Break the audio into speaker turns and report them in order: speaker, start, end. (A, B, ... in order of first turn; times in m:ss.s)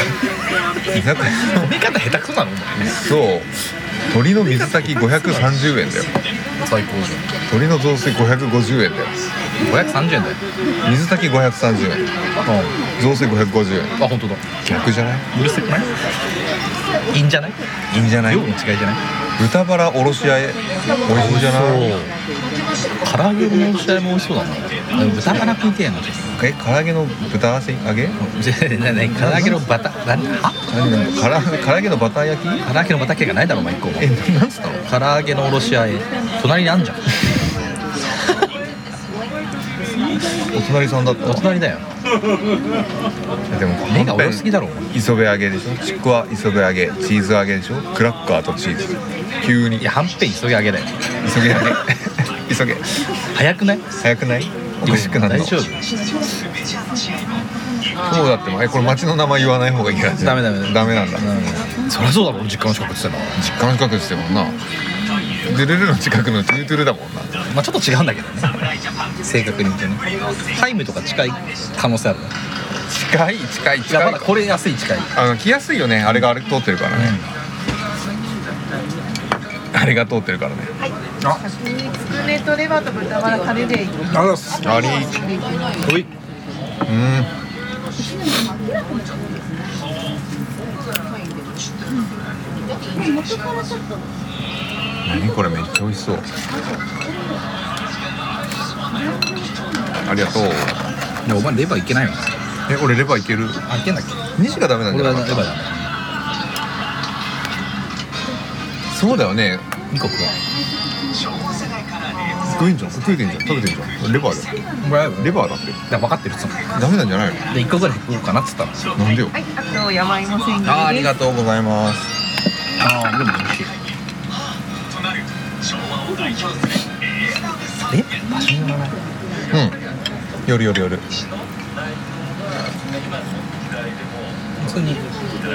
0:00.9-0:01.8 A
0:00.9-0:03.0 B
0:02.8-0:03.5 A
0:04.1-0:06.1 A
0:05.2-0:05.4 B
0:06.6-0:07.2 B
0:07.5-0:09.1 A
0:09.6-0:10.4 B
0:10.8-0:12.0 A
0:12.4-0:12.8 B
0:13.0-0:13.9 A
0:14.0-0:14.4 B
0:14.6-0:15.3 A
0:15.3-0:16.0 B
0:17.1-0:17.6 B
0:17.9-0:18.5 A
0:18.2-0:19.0 B
0:19.4-0:22.0 A
0:21.1-0:22.1 B
0:23.0-0:26.4 B
0:26.4-0:28.2 A
0:28.2-0:30.6 B
0:29.1-0:29.6 A
0:30.7-0:32.7 A
0:32.6-0:34.1 B
0:34.0-0:34.8 A
0:34.8-0:37.0 B
0:40.5-0:41.4 A
0:41.2-0:41.9 B
0:43.5-0:49.9 A
0:43.9-0:44.9 B
0:49.8-0:51.0 B
0:51.2-0:52.8 A
0:53.3-0:53.8 B
0:54.0-0:55.6 A
0:54.8-0:55.9 B
0:58.0-1:01.5 A
1:00.1-1:03.4 B
1:03.4-1:04.6 A
1:05.4-1:07.3 A
1:07.5-1:08.6 B
1:09.2-1:12.3 B
1:12.9-1:14.4 A
1:13.9-1:15.1 B
1:15.1-1:17.2 A
1:16.9-1:17.3 B
1:19.7-1:20.7 A
1:21.4-1:25.7 C
1:24.1-1:24.7 B
1:24.6-1:25.2 A
1:25.8-1:26.1 B
1:26.9-1:27.3 A
1:35.0-1:36.3 A
1:40.0-1:40.8 A
1:41.2-1:42.4 B
1:42.7-1:43.6 A
1:43.7-1:44.3 B
1:44.4-1:45.5 A
1:44.9-1:45.9 B
1:48.9-1:49.7 A
1:49.9-1:50.3 B
1:52.4-1:54.5 A
1:54.8-1:56.7 B
1:55.2-1:55.8 A
1:56.7-1:57.4 A
1:57.5-1:58.8 B
1:59.0-1:59.4 A
1:59.3-2:01.2 C
2:00.6-2:02.1 A
2:02.8-2:03.7 B
2:07.9-2:09.0 B
2:09.5-2:09.8 A
2:10.4-2:11.1 A
2:14.6-2:15.0 B